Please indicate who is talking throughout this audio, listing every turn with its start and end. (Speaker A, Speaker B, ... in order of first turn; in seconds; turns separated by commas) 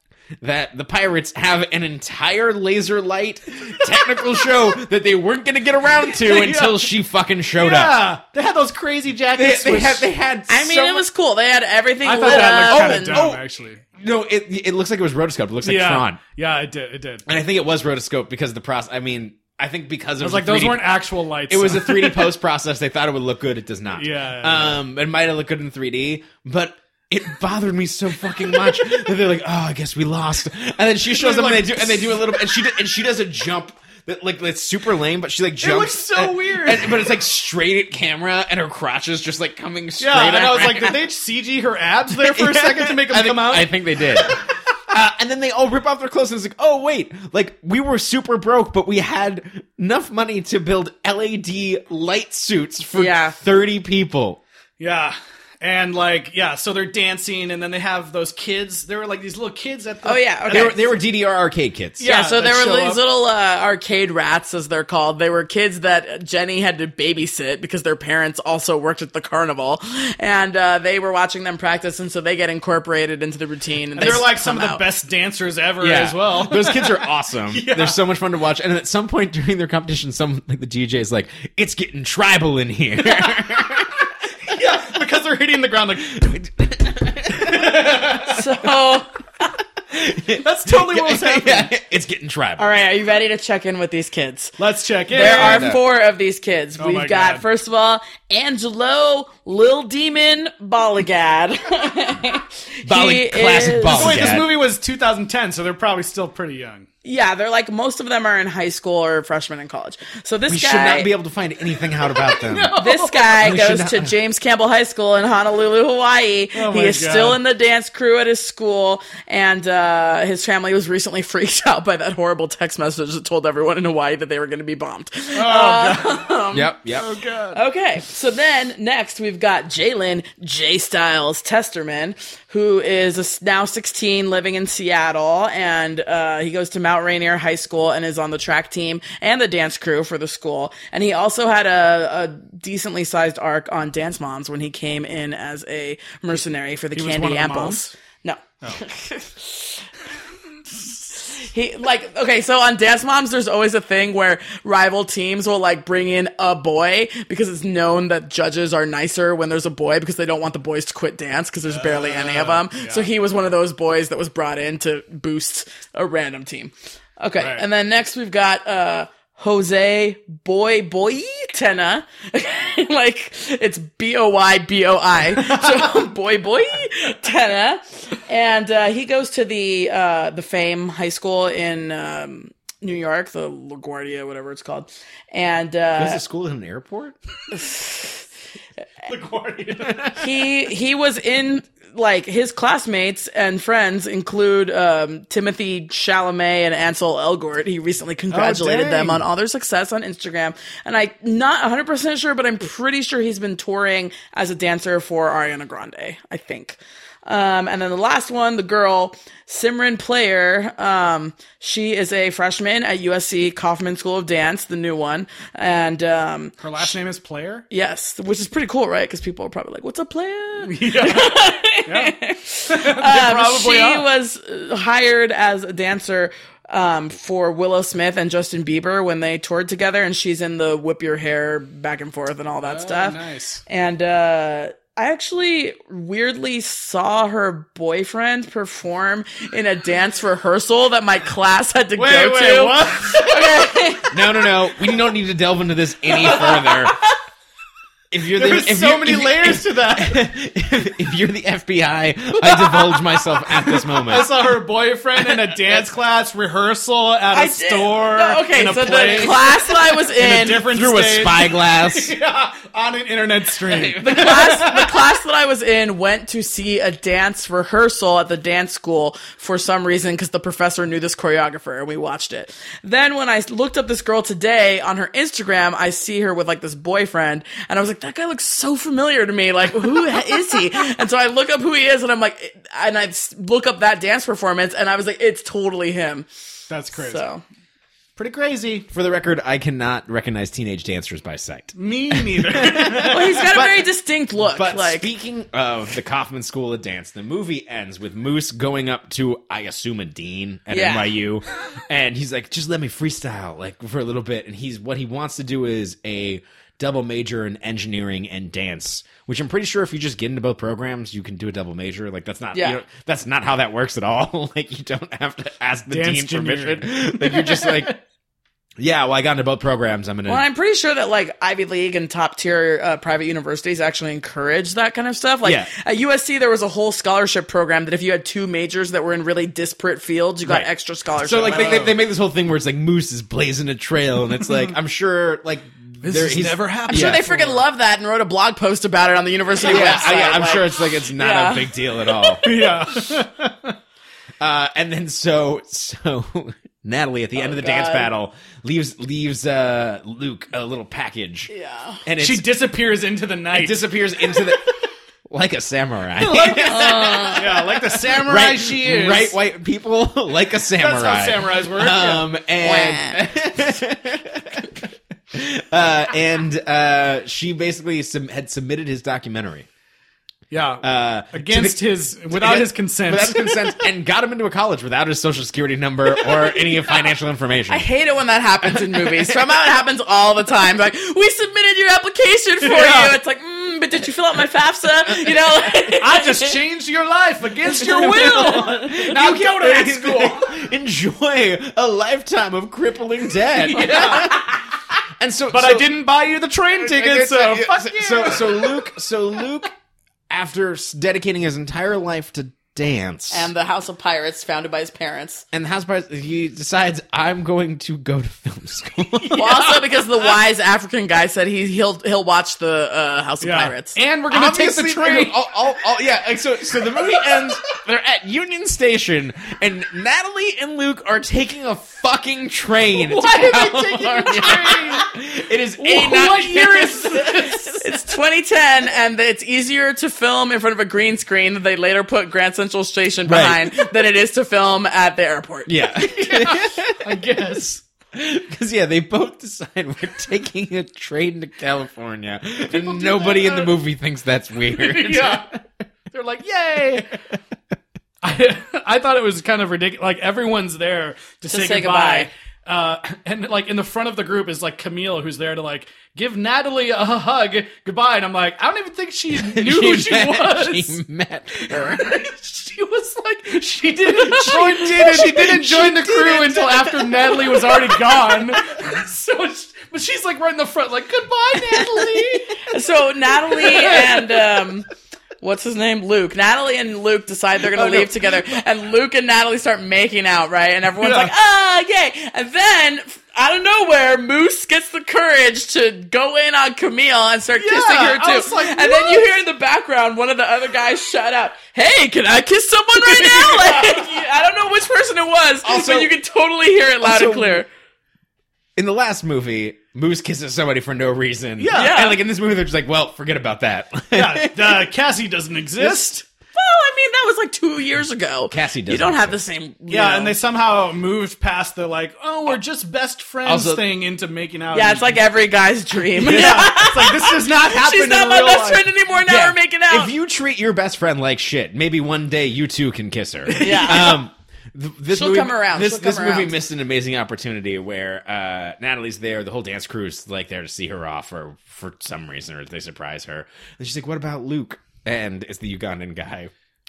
Speaker A: 0.4-8.0, Speaker B: 6.2-6.9, Speaker B: 7.5-10.1, Speaker A: 9.3-11.0, Speaker C: 10.5-13.2, Speaker B: 12.0-13.8, Speaker A: 12.2-13.4, Speaker A: 14.0-16.2, Speaker B: 15.6-17.3, Speaker A: 17.3-41.0, Speaker B: 20.2-22.3, Speaker B: 23.9-24.8, Speaker B: 31.1-32.3, Speaker B: 35.6-37.0, Speaker B: 40.0-44.5, Speaker A: 42.1-44.4, Speaker A: 44.9-54.4, Speaker C: 52.9-53.4, Speaker B: 54.8-60.8, Speaker C: 60.0-60.7, Speaker A: 60.5-62.0, Speaker B: 62.0-63.0, Speaker C: 62.0-74.8, Speaker B: 74.0-78.0, Speaker A: 75.8-84.0, Speaker B: 83.1-83.4, Speaker B: 84.4-86.3, Speaker A: 86.1-88.4, Speaker B: 87.3-88.4, Speaker C: 88.3-89.1, Speaker A: 89.9-92.6, Speaker B: 90.3-91.7, Speaker C: 92.6-94.5, Speaker B: 94.6-95.8, Speaker C: 95.1-104.3, Speaker A: 95.1-95.8, Speaker B: 96.8-97.4, Speaker A: 102.8-104.5, Speaker B: 103.9-106.9, Speaker C: 107.0-111.1, Speaker A: 110.5-112.8, Speaker B: 112.1-113.5, Speaker C: 112.8-126.7, Speaker A: 113.4-114.1, Speaker B: 116.5-117.4, Speaker B: 125.3-126.3, Speaker A: 126.5-127.1, Speaker B: 126.9-127.6, Speaker C: 127.5-149.8, Speaker B: 146.9-147.9, Speaker C: 151.2-186.2, Speaker B: 161.7-163.1, Speaker B: 167.4-167.6, Speaker B: 175.3-176.0, Speaker A: 186.0-187.2, Speaker C: 187.5-188.2, Speaker B: 189.0-190.2, Speaker C: 190.2-216.6, Speaker B: 198.3-199.1, Speaker A: 198.3-199.2, Speaker B: 216.6-217.6, Speaker C: 217.7-233.2, Speaker B: 220.6-224.1, Speaker B: 232.6-233.6, Speaker C: 233.7-244.2, Speaker B: 241.9-243.9, Speaker A: 244.1-247.0, Speaker A: 248.1-254.5, Speaker B: 248.3-250.3, Speaker B: 252.3-265.0, Speaker C: 257.3-260.7, Speaker A: 260.6-262.1, Speaker A: 263.8-264.1, Speaker C: 264.0-286.3, Speaker B: 286.7-287.2, Speaker C: 286.9-287.4, Speaker B: 288.1-288.9, Speaker A: 288.9-293.9, Speaker B: 291.8-293.6, Speaker C: 293.1-295.1, Speaker A: 294.4-317.9, Speaker C: 300.7-301.1, Speaker C: 312.5-312.8, Speaker B: 315.9-318.0, Speaker A: 318.8-320.4, Speaker C: 320.3-331.9, Speaker A: 325.4-325.7, Speaker A: 330.4-337.2, Speaker B: 331.5-331.9, Speaker B: 336.0-337.6, Speaker C: 336.9-342.4, Speaker A: 339.6-342.4, Speaker B: 342.4-343.8, Speaker A: 344.4-351.5, Speaker C: 347.4-348.1, Speaker C: 351.5-352.0, Speaker A: 352.0-352.6, Speaker B: 352.2-353.9, Speaker A: 353.5-354.7, Speaker A: 355.3-369.7, Speaker B: 356.1-359.4, Speaker C: 356.6-357.4, Speaker B: 360.8-362.3, Speaker C: 362.6-363.2, Speaker B: 370.5-373.6, Speaker A: 370.8-377.9, Speaker C: 377.7-386.5, Speaker A: 378.6-379.4, Speaker B: 382.6-383.2, Speaker B: 385.8-390.6, Speaker C: 387.8-388.9, Speaker A: 387.9-394.6, Speaker B: 393.5-394.7, Speaker A: 395.2-396.0, Speaker B: 395.5-398.9, Speaker A: 396.8-399.7, Speaker A: 400.3-403.5, Speaker C: 403.3-405.4, Speaker A: 405.5-409.6, Speaker B: 409.2-410.3, Speaker C: 409.4-413.9, Speaker B: 413.4-415.4, Speaker A: 414.3-427.8, Speaker B: 417.0-417.4, Speaker B: 423.0-425.1, Speaker B: 425.8-427.9, Speaker C: 427.8-435.8, Speaker A: 433.2-433.9, Speaker A: 435.6-437.2, Speaker B: 436.0-437.8, Speaker A: 438.1-445.6, Speaker B: 442.7-443.7, Speaker B: 444.7-447.2, Speaker B: 448.2-461.0, Speaker C: 451.5-452.3, Speaker A: 459.3-462.1, Speaker B: 461.6-472.6, Speaker A: 464.1-467.9, Speaker C: 472.6-474.9, Speaker B: 473.5-474.5, Speaker C: 475.4-497.7, Speaker B: 481.0-481.3, Speaker B: 487.6-489.3, Speaker B: 493.0-494.1, Speaker A: 495.6-496.1, Speaker A: 497.0-497.6, Speaker A: 498.8-504.9, Speaker B: 501.6-502.1, Speaker C: 501.7-502.2, Speaker B: 504.1-506.2, Speaker C: 506.6-510.3, Speaker A: 508.5-509.4, Speaker B: 509.9-515.2, Speaker A: 513.4-513.8, Speaker C: 514.7-520.1, Speaker B: 516.1-518.9, Speaker A: 519.2-536.5, Speaker B: 523.5-524.2, Speaker C: 523.6-524.1, Speaker C: 525.1-526.5